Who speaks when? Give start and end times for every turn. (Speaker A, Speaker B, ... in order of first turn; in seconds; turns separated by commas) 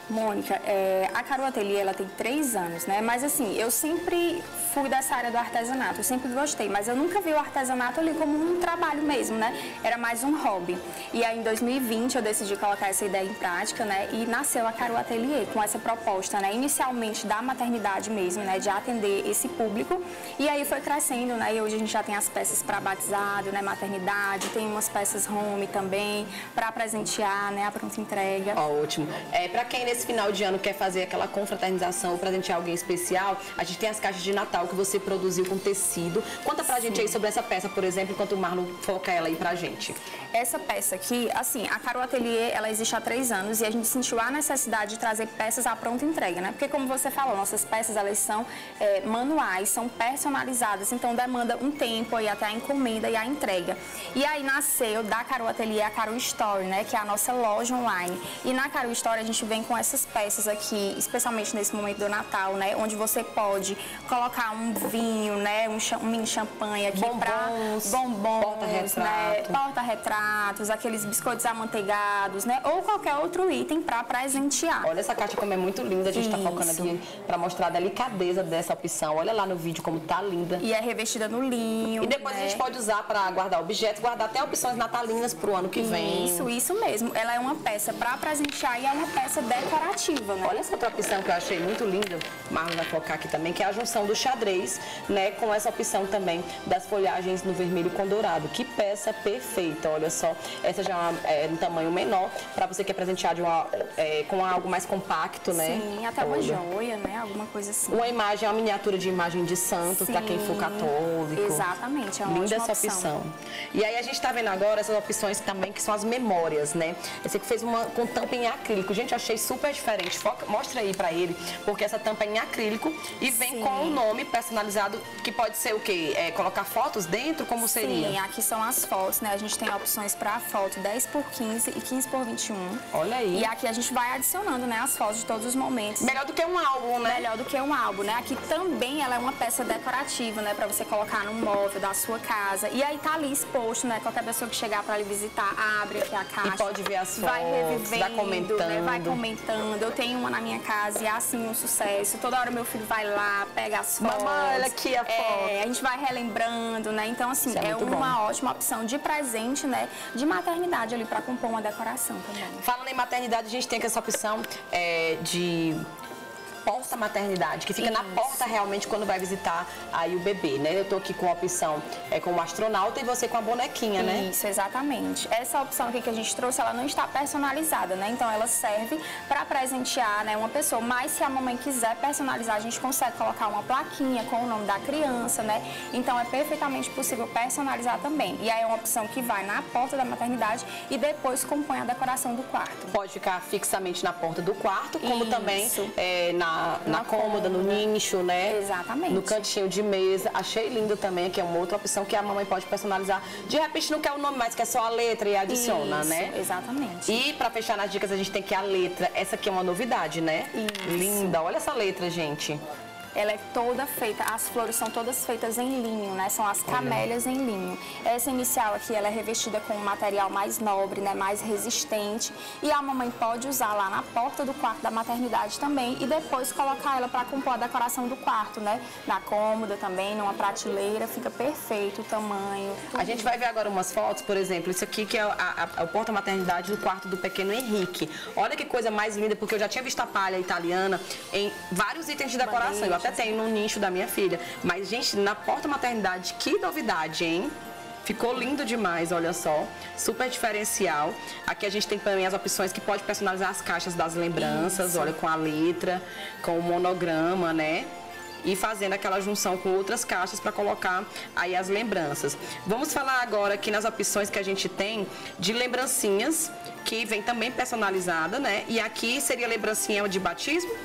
Speaker A: 0.1-28.6, Speaker B: 28.6-40.0, Speaker A: 36.8-37.1, Speaker A: 40.3-74.9, Speaker B: 66.9-69.6, Speaker B: 74.8-80.6, Speaker A: 76.1-77.0, Speaker A: 80.6-82.6, Speaker B: 82.0-86.5, Speaker A: 85.8-90.6, Speaker B: 90.4-106.6, Speaker A: 105.5-108.1, Speaker B: 107.9-111.7, Speaker A: 109.8-113.1, Speaker B: 112.2-128.2, Speaker A: 123.3-124.0, Speaker A: 127.6-136.2, Speaker B: 132.9-133.5, Speaker B: 136.0-137.3, Speaker A: 137.0-162.7, Speaker B: 146.4-149.2, Speaker B: 154.0-155.6, Speaker B: 157.5-158.2, Speaker B: 162.6-165.8, Speaker B: 166.7-174.3, Speaker A: 167.8-168.4, Speaker A: 174.0-192.9, Speaker B: 192.9-198.6, Speaker A: 195.0-196.0, Speaker A: 196.9-197.9, Speaker A: 198.5-199.5, Speaker B: 199.1-206.3, Speaker A: 205.5-207.2, Speaker B: 207.1-212.6, Speaker A: 210.5-211.4, Speaker A: 213.2-233.4, Speaker B: 216.7-217.0, Speaker B: 232.9-247.5, Speaker A: 242.4-243.4, Speaker B: 248.1-257.9, Speaker A: 254.4-255.2, Speaker B: 258.4-270.7